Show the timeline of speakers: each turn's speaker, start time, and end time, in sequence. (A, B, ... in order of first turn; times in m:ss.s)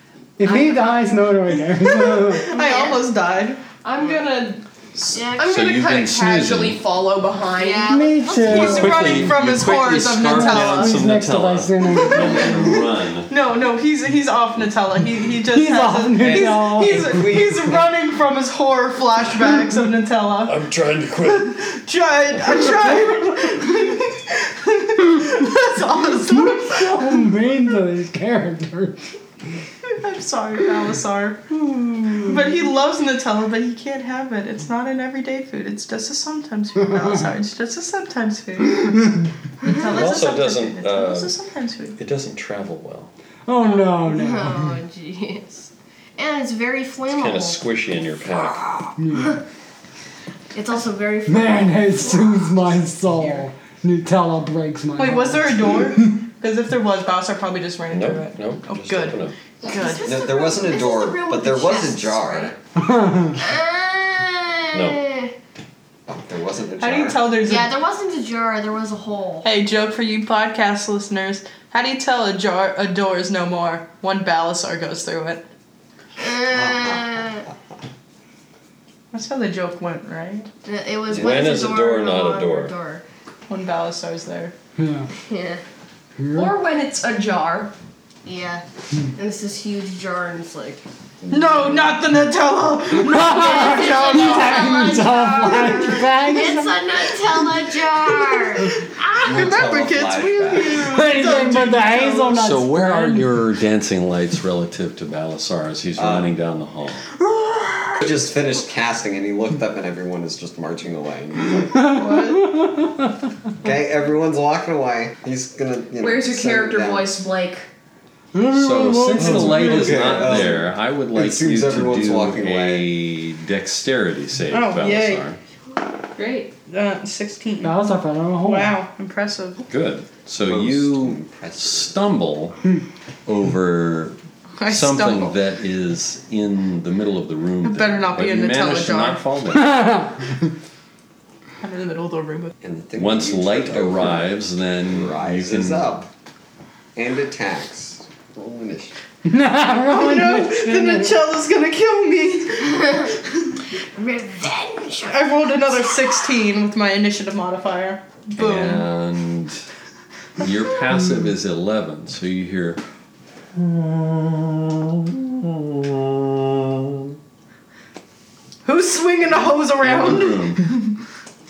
0:00.4-0:02.5 A
0:00.4-0:00.9 B
0:01.8-0:03.6 C
0:02.5-0:03.0 B
0:03.8-0:08.0 B
0:05.1-0:05.6 D
0:05.4-0:06.8 E
0:07.6-0:09.2 D
0:07.9-0:09.4 A
0:08.4-0:11.0 C
0:08.4-0:13.3 E
0:10.2-0:12.5 A
0:13.3-0:20.7 C
0:15.5-0:17.2 A
0:16.2-0:17.8 F
0:20.4-0:21.6 E
0:21.2-0:27.3 C
0:26.2-0:29.1 A
0:29.8-0:42.0 C
0:39.8-0:41.4 E
0:42.0-0:43.1 E
0:43.4-0:44.8 A
0:44.0-0:47.6 D
0:47.1-0:48.8 E
0:48.4-0:49.4 D
0:49.0-0:49.4 A
0:50.5-0:52.8 D
0:51.2-0:56.2 A
0:55.0-1:00.1 C
0:57.9-0:59.4 E
0:59.6-1:02.5 D
1:00.0-1:02.6 F
1:02.8-1:03.4 A
1:03.4-1:05.3 D
1:04.7-1:05.1 E
1:06.1-1:07.3 F
1:06.8-1:07.8 C
1:07.4-1:09.5 D
1:09.4-1:15.4 C
1:16.2-1:17.4 D
1:16.5-1:17.0 F
1:19.1-1:20.5 C
1:20.6-1:23.0 D
1:21.1-1:22.7 E
1:21.1-1:21.4 F
1:23.5-1:24.5 C
1:24.8-1:25.1 A
1:25.2-1:25.6 D
1:26.2-1:26.6 A
1:26.3-1:27.7 B
1:28.2-1:30.8 D
1:31.2-1:32.1 F
1:31.3-1:34.9 C
1:32.9-1:36.8 A
1:33.2-1:38.8 D
1:38.3-1:42.4 C
1:39.1-1:40.9 F
1:40.8-1:43.3 A
1:42.4-1:47.1 E
1:46.0-1:46.4 F
1:47.2-1:48.0 C
1:48.0-1:52.0 F
1:51.8-1:52.5 C
1:53.6-1:57.1 F
1:56.0-1:57.7 B
1:58.4-1:59.8 A
1:58.5-2:05.4 E
1:59.2-2:02.9 F
1:59.3-2:00.1 C
2:04.5-2:05.2 C
2:06.2-2:06.5 B
2:06.7-2:07.8 C
2:07.6-2:08.8 A
2:08.4-2:09.6 C
2:09.7-2:12.6 E
2:10.4-2:12.0 F
2:13.2-2:19.8 E
2:14.6-2:15.4 C
2:17.6-2:19.2 C
2:19.5-2:20.5 A
2:21.6-2:22.5 C
2:22.6-2:26.1 F
2:23.0-2:26.0 E
2:27.0-2:29.0 F
2:29.2-2:31.2 A
2:29.9-2:33.3 C
2:32.8-2:33.1 D
2:33.8-2:35.6 D
2:35.0-2:38.9 C
2:38.4-2:39.6 E
2:40.4-2:42.8 E
2:43.9-2:44.3 E
2:48.6-2:50.9 C
2:49.8-2:50.6 E